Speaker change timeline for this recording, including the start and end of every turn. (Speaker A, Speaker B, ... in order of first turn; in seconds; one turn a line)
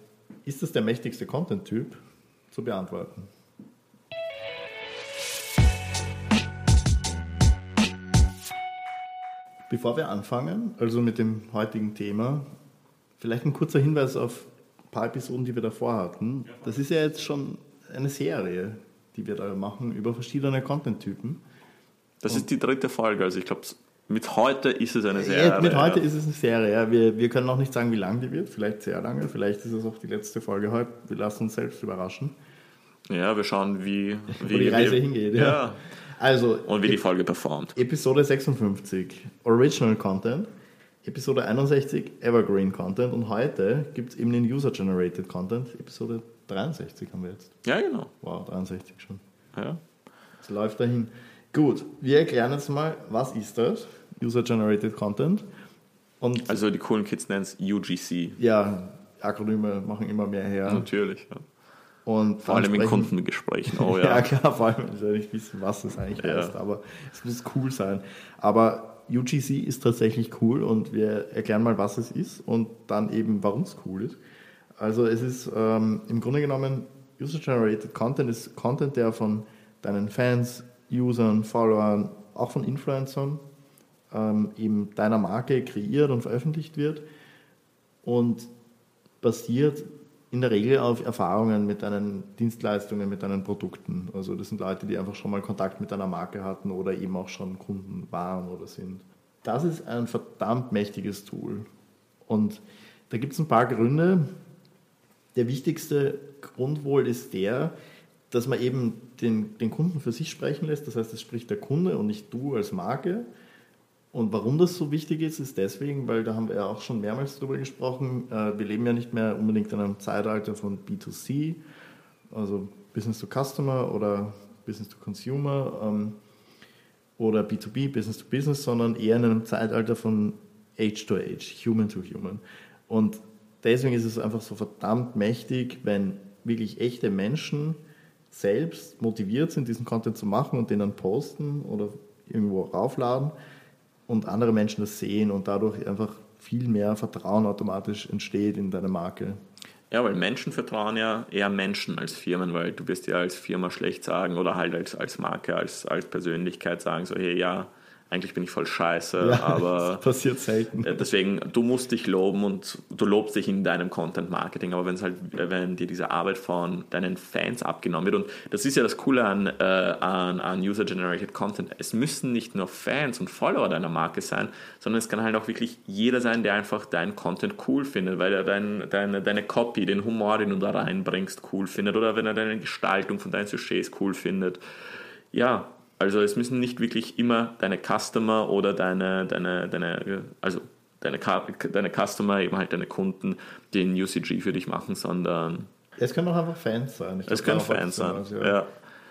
Speaker A: 0.5-2.0
Speaker A: 2.5-3.3
Speaker A: 9.7-12.4
Speaker A: 13.2-21.4
Speaker B: 22.2-26.1
Speaker A: 25.1-32.3
Speaker B: 33.1-35.8
Speaker A: 34.4-37.0
Speaker B: 36.7-37.8
Speaker A: 37.8-40.5
Speaker A: 41.0-47.6
Speaker B: 47.6-48.1
Speaker A: 48.2-49.2
Speaker B: 49.5-49.8
Speaker A: 50.4-55.5
Speaker A: 56.2-56.6
Speaker B: 56.5-58.4
Speaker A: 58.4-60.9
Speaker B: 60.7-61.4
Speaker A: 62.1-63.1
Speaker B: 62.5-64.2
Speaker A: 63.7-74.2
Speaker B: 66.2-66.5
Speaker A: 74.8-83.4
Speaker A: 84.1-87.0
Speaker A: 88.0-88.5
Speaker A: 89.2-101.7
Speaker A: 102.3-104.2
Speaker A: 105.3-107.7
Speaker A: 108.3-113.3
Speaker A: 114.1-121.6
Speaker A: 122.3-126.2
Speaker A: 127.2-137.8
Speaker A: 138.3-143.3
Speaker A: 144.1-149.4
Speaker B: 149.9-160.0
Speaker A: 159.2-161.1
Speaker B: 160.8-184.6
Speaker B: 185.3-195.7
Speaker A: 196.0-198.6
Speaker B: 197.3-198.7